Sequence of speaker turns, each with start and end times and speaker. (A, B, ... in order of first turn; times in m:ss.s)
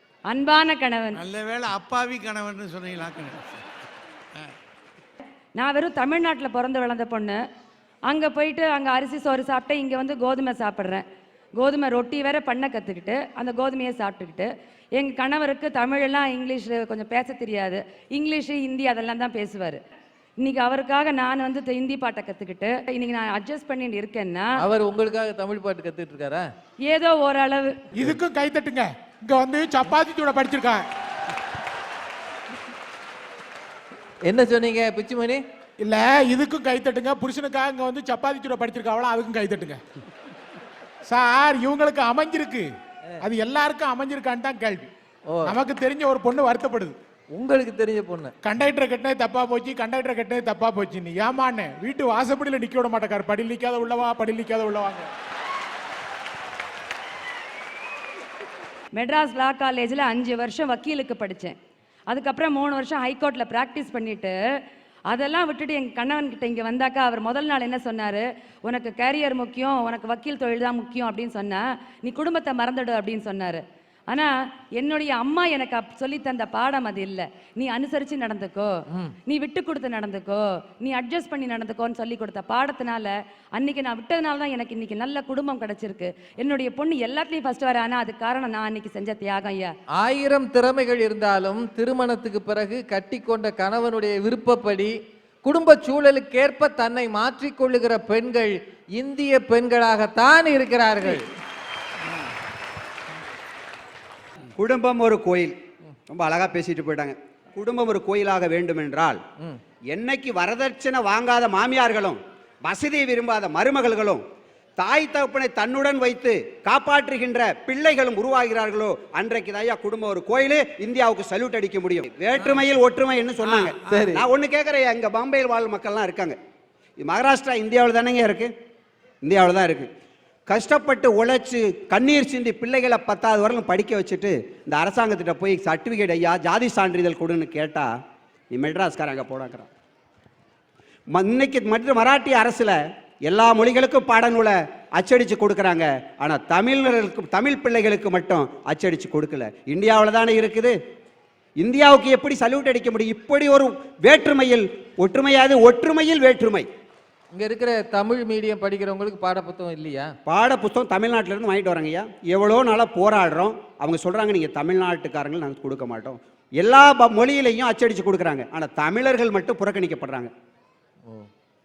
0:00.3-0:01.2 A
0:01.4-0:03.3 B
0:05.6-0:07.4 A
0:08.1-0:11.0 A
0:11.6-0:19.8 A
0:20.4-0:24.6 A
0:24.6-0:26.5 C
0:26.9-0:27.7 A
0:28.0-0:30.8 D
0:34.3-0:35.4 C
0:35.8-0:39.8 D
0:41.1-0:42.7 D
0:43.2-0:44.9 D
0:45.3-0:45.5 C
0:45.5-0:47.0 D
0:47.3-0:48.3 C
0:48.4-0:55.1 D
0:59.0-1:01.6 A
1:02.1-1:04.4 A
1:05.1-1:18.7 A
1:19.3-1:29.7 A
1:30.0-1:34.9 C
1:35.4-1:41.2 C
1:44.6-1:45.6 E
1:46.1-1:49.2 E
1:49.9-1:54.2 E
1:54.8-2:06.4 E
2:03.9-2:04.2 C
2:07.0-2:08.5 E
2:09.2-2:09.9 E
2:10.5-2:17.9 E
2:18.5-2:19.7 E
2:21.1-2:22.8 E
2:23.3-2:30.8 E
2:31.6-2:36.7 E
2:37.3-2:40.1 C
2:40.3-2:50.3 E